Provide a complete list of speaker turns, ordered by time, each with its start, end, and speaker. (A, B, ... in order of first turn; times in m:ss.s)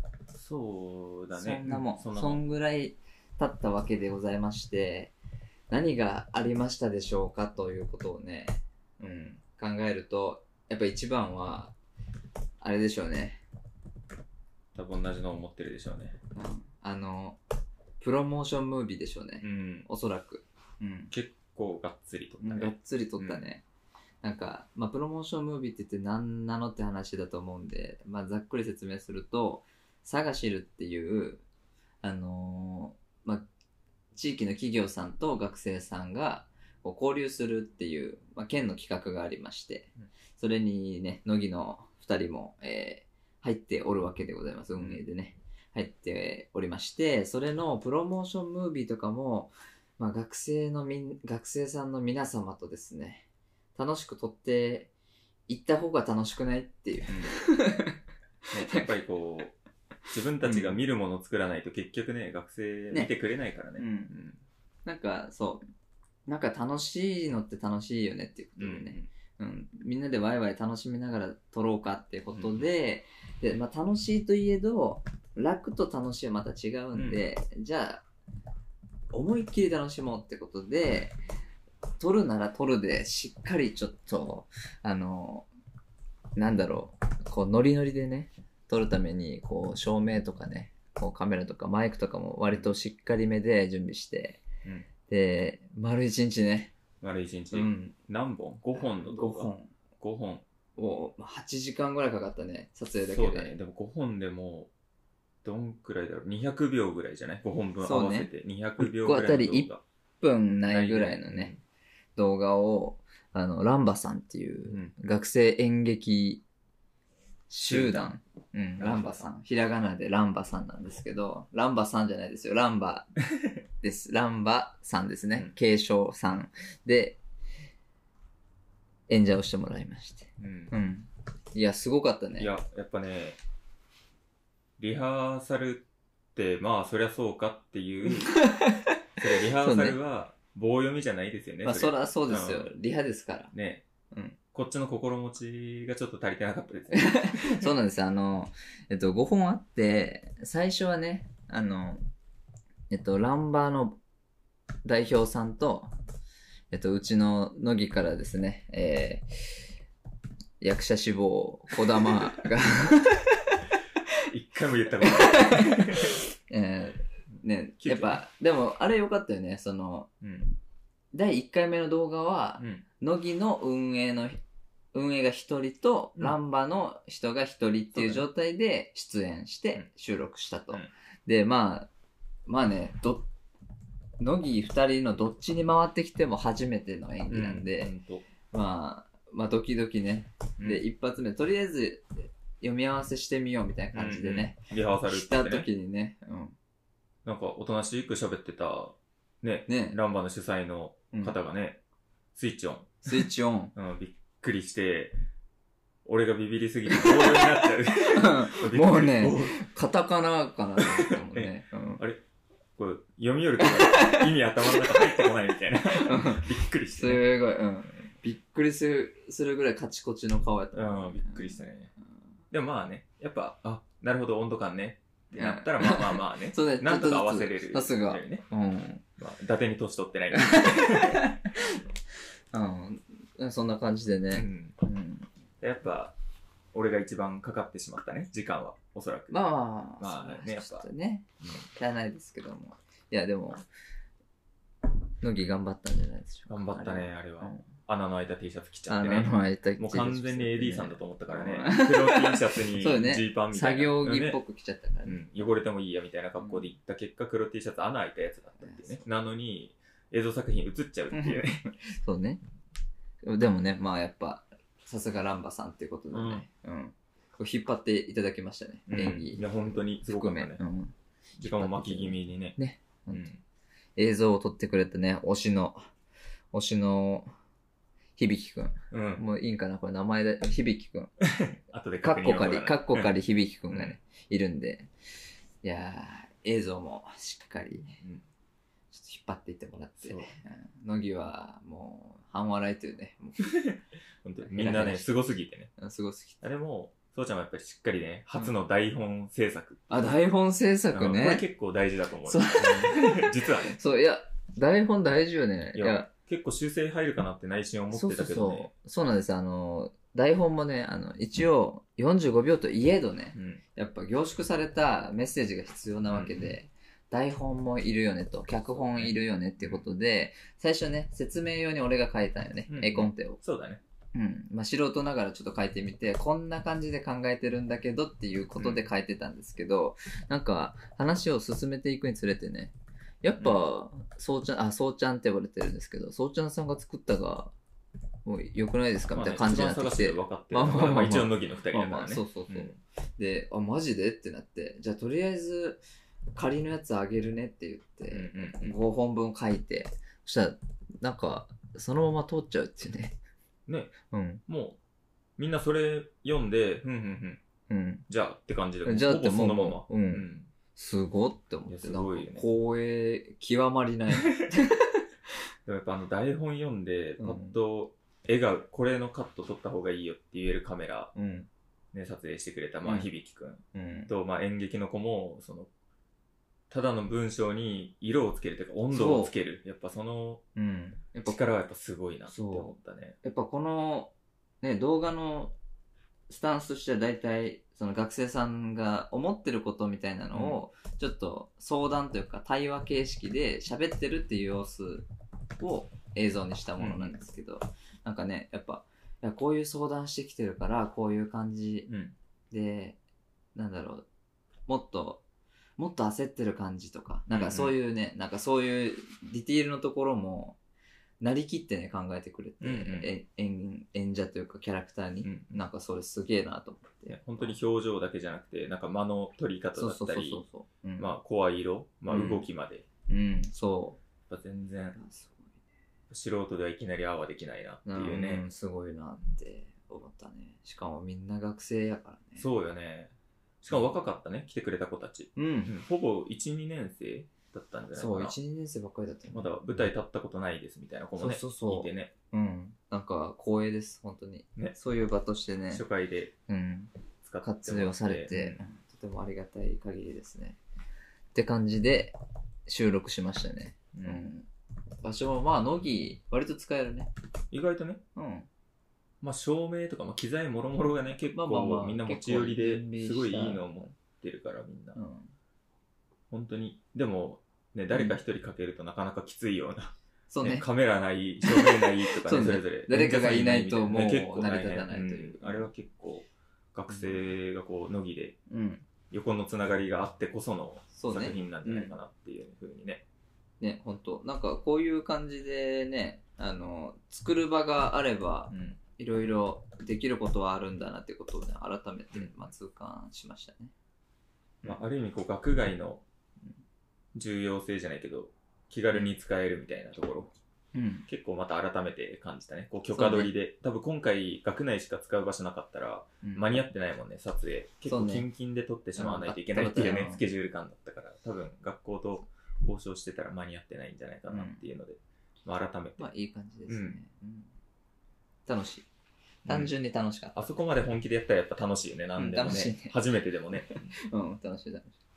0:00.3-0:02.4 A
0:01.3-0:05.1 B
0:05.7-0:11.8 B
0:12.6-0:13.4 B
0:14.8-0:16.2 A
0:16.3-0:17.4 B
0:18.0-0:21.1 B
0:19.4-0:19.9 A
0:21.1-0:23.4 A
0:22.4-0:23.6 B
0:24.2-0:31.4 B
0:32.0-0:33.5 B
0:34.1-0:54.9 B
0:44.8-0:45.0 A
0:55.5-0:58.0 B
0:57.1-0:57.4 A
0:58.5-0:59.6 A
1:00.1-1:04.4 A
1:00.4-1:00.8 B
1:03.8-1:04.1 B
1:04.8-1:05.6 B
1:06.3-1:18.0 B
1:08.6-1:09.1 A
1:12.3-1:12.6 A
1:16.9-1:17.2 A
1:19.1-1:21.2 B
1:22.0-1:25.5 B
1:26.4-1:34.4 B
1:35.1-1:36.7 B
1:37.0-1:40.4 A
1:37.5-1:38.0 B
1:38.7-1:39.7 B
1:40.8-1:43.6 B
1:43.0-1:44.7 A
1:45.4-1:49.8 A
1:47.8-1:51.5 B
1:50.7-1:51.6 A
1:52.2-1:56.4 B
1:57.5-2:03.1 B
1:57.7-1:58.1 A
1:58.8-1:59.3 A
2:03.8-2:07.2 B
2:09.1-2:12.5 B
2:10.4-2:10.7 A
2:12.4-2:13.4 A
2:14.8-2:18.4 A
2:18.1-2:20.0 B
2:19.2-2:22.7 A
2:21.6-2:23.5 B
2:23.5-2:23.8 A
2:24.1-2:24.4 B
2:24.5-2:27.7 A
2:26.9-2:32.0 B
2:32.9-2:34.0 B
2:34.8-2:35.9 B
2:36.7-2:39.6 B
2:40.6-2:43.6 B
2:44.3-2:46.2 A
2:45.0-2:50.1 B
2:47.8-2:48.2 A
2:50.2-2:50.6 A
2:51.1-2:54.4 B
2:52.6-2:52.8 A
2:54.9-3:01.9 B
2:57.9-2:58.3 A
3:02.5-3:03.3 B
3:04.2-3:07.9 B
3:07.3-3:08.3 A
3:08.5-3:16.6 B
3:13.9-3:15.7 A
3:17.2-3:21.8 A
3:19.7-3:20.0 B
3:22.4-3:25.2 A
3:23.1-3:23.7 B
3:26.0-3:29.6 A
3:26.9-3:32.0 B
3:30.8-3:32.2 A
3:32.8-3:37.2 A
3:33.6-3:35.1 B
3:36.0-3:41.6 B
3:40.7-3:41.9 A
3:42.5-3:48.5 A
3:45.4-3:49.0 B
3:49.2-3:51.3 A
3:50.5-3:51.6 B
3:52.5-3:55.3 B
3:54.3-3:54.8 A
3:55.6-3:56.2 A
3:56.7-3:59.4 A
3:59.3-4:03.6 B
4:00.0-4:00.9 A
4:05.2-4:07.7 B
4:06.5-4:14.4 A
4:08.9-4:15.6 B
4:15.0-4:21.6 A
4:16.4-4:16.7 B
4:18.6-4:19.0 B
4:21.1-4:22.4 B
4:23.2-4:29.5 B
4:26.1-4:26.5 A
4:28.9-4:30.6 A
4:30.1-4:33.3 B
4:31.4-4:32.6 A
4:33.1-4:33.4 A
4:34.0-4:35.8 B
4:36.5-4:37.3 B
4:38.2-4:41.1 B
4:38.9-4:39.2 A
4:41.2-4:43.1 A
4:42.0-4:44.9 B
4:43.7-4:44.0 A
4:45.6-4:48.0 B
4:48.0-4:48.3 A
4:48.9-4:53.5 B
4:50.0-4:50.3 A
4:53.4-4:55.7 A
4:54.4-4:55.2 B
4:55.8-4:56.4 B
4:56.4-5:00.2 A
4:59.9-5:01.4 B
5:00.9-5:03.8 A
5:02.3-5:06.1 B
5:05.7-5:08.7 A
5:07.9-5:23.4 B
5:13.4-5:13.6 A
5:16.1-5:16.5 A
5:18.7-5:19.9 A
5:22.7-5:23.8 A
5:24.1-5:37.5 B
5:28.6-5:28.9 A
5:38.2-5:45.8 B
5:39.1-5:42.8 A
5:46.4-5:53.2 B
5:48.1-5:48.8 A
5:53.7-5:53.9 A
5:54.1-5:54.4 B
5:54.5-5:54.8 A
5:55.4-5:57.4 A
5:57.7-5:58.0 B
5:58.1-6:00.5 A
5:58.8-6:05.0 B
6:01.7-6:02.5 A
6:05.7-6:11.1 A
6:07.2-6:07.6 B
6:11.2-6:11.5 B
6:11.9-6:15.7 A
6:12.8-6:13.1 B
6:13.7-6:14.1 B
6:16.7-6:20.4 A
6:18.9-6:19.3 B
6:20.6-6:21.4 B
6:21.3-6:23.2 A
6:22.3-6:25.6 B
6:26.3-6:35.1 B
6:30.3-6:30.6 A
6:35.6-6:41.9 B
6:36.8-6:37.1 A
6:41.9-6:42.2 A
6:42.5-6:43.0 B
6:43.6-6:44.1 B
6:44.7-6:45.2 B
6:45.8-6:50.6 B
6:47.3-6:47.8 A
6:51.2-6:57.6 B
6:52.6-6:53.1 A
6:55.2-6:55.6 A
6:57.1-7:00.4 A
6:59.8-7:01.1 B
7:01.0-7:02.8 A
7:02.1-7:02.4 B
7:03.1-7:04.0 B
7:04.3-7:05.0 A
7:05.0-7:05.4 B
7:06.1-7:08.5 A
7:07.9-7:12.5 B
7:12.4-7:18.4 A
7:13.7-7:14.0 B
7:15.4-7:15.7 B
7:17.9-7:19.5 B
7:19.3-7:22.1 A
7:21.2-7:25.8 B
7:25.7-7:26.3 A
7:26.5-7:30.6 B
7:27.2-7:28.6 A
7:31.3-7:34.5 B
7:33.9-7:34.2 A
7:35.0-7:37.1 B
7:37.5-7:38.0 A
7:38.2-7:38.5 B
7:39.2-7:45.0 A
7:41.0-7:43.9 B
7:45.0-7:45.3 B
7:46.3-7:58.4 A
7:50.3-7:50.7 B
7:51.4-7:55.7 B
7:56.9-7:57.3 B
7:58.5-7:58.8 B
7:59.1-8:03.0 A
8:00.9-8:02.0 B
8:03.6-8:13.7 B
8:08.5-8:08.8 A
8:12.1-8:12.5 A
8:14.6-8:16.0 A
8:17.2-8:20.3 A
8:20.7-8:21.1 B
8:21.1-8:36.1 A
8:22.9-8:23.3 B
8:26.2-8:26.6 B
8:27.9-8:28.3 B
8:29.0-8:30.2 B
8:34.3-8:34.6 B
8:36.0-8:37.5 B
8:36.7-8:37.0 A
8:38.5-8:38.9 B
8:39.5-8:39.7 A
8:39.5-8:40.5 B
8:40.4-8:43.9 A
8:42.2-8:43.0 B
8:43.6-8:45.0 B